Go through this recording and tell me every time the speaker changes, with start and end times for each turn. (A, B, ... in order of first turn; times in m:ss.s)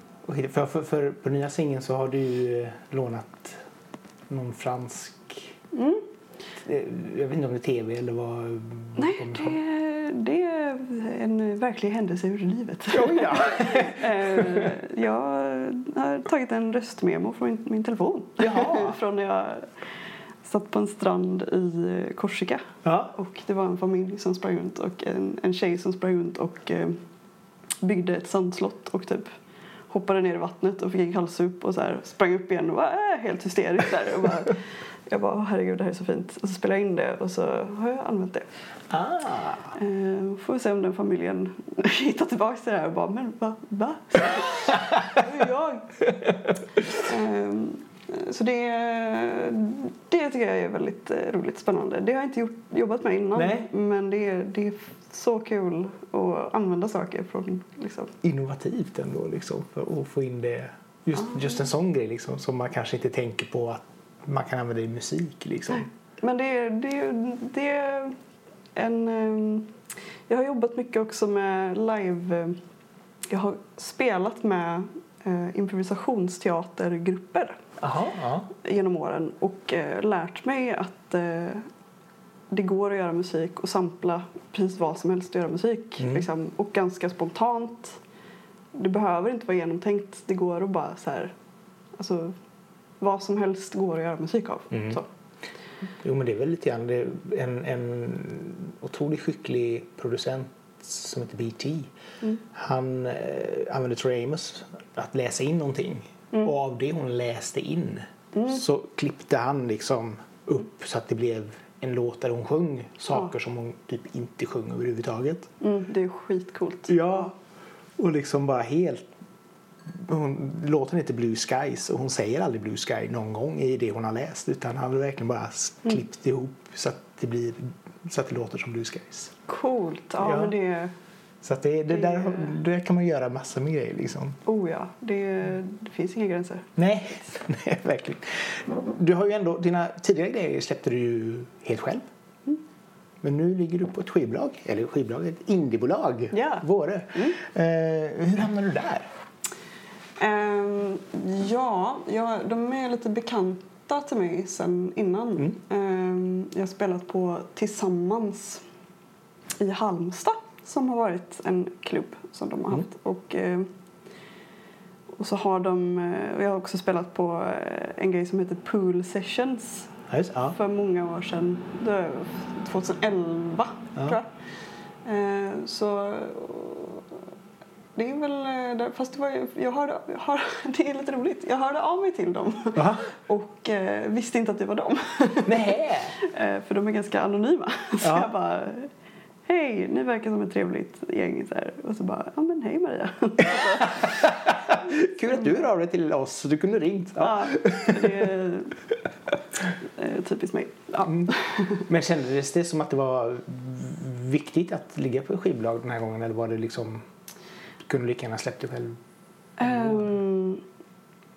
0:00.2-0:03.6 A
0:04.3-0:05.6 A
0:05.7-0:06.0 B
0:06.6-0:09.6 A
0:09.0-0:19.7 B
0:12.9-0:14.8 A
0:18.4-0:19.0 A
0:20.4-0:27.0 B
0:22.8-0:23.2 A
0:27.8-0:29.3 B
0:29.9-0:34.6 B
0:35.1-0:38.5 B
0:38.9-0:39.7 A
0:39.7-0:46.0 B
0:44.8-0:45.2 A
0:46.0-0:47.0 A
0:47.0-0:58.1 B
0:53.4-0:53.7 A
0:58.2-1:05.9 A
1:05.7-1:08.2 B
1:08.8-1:09.8 B
1:10.3-1:12.6 B
1:13.3-1:17.6 B
1:17.8-1:18.5 A
1:18.5-1:21.7 B
1:22.5-1:28.0 B
1:26.0-1:26.2 A
1:28.7-1:31.3 B
1:32.0-1:32.4 B
1:33.0-1:35.1 B
1:34.7-1:35.0 A
1:36.0-1:41.9 A
1:42.4-1:55.5 A
1:55.6-1:57.3 B
1:56.9-1:57.3 A
1:58.0-1:59.1 A
1:59.9-2:09.3 A
2:09.5-2:10.9 B
2:10.2-2:10.5 A
2:11.4-2:14.4 A
2:11.9-2:12.6 B
2:14.4-2:16.7 B
2:16.8-2:22.1 A
2:23.2-2:29.1 A
2:26.3-2:27.4 B
2:30.2-2:38.6 B
2:39.6-2:43.7 B
2:45.2-2:50.0 B
2:50.1-2:50.6 A
2:50.5-2:54.3 B
2:55.0-2:57.2 B
2:58.0-3:08.9 B
3:02.8-3:03.1 A
3:05.5-3:06.2 A
3:08.0-3:08.3 A
3:09.5-3:14.3 B
3:13.6-3:18.3 A
3:17.2-3:18.8 B
3:19.8-3:21.9 B
3:21.0-3:27.1 A
3:27.9-3:29.0 A
3:29.6-3:30.6 B
3:29.6-3:30.2 A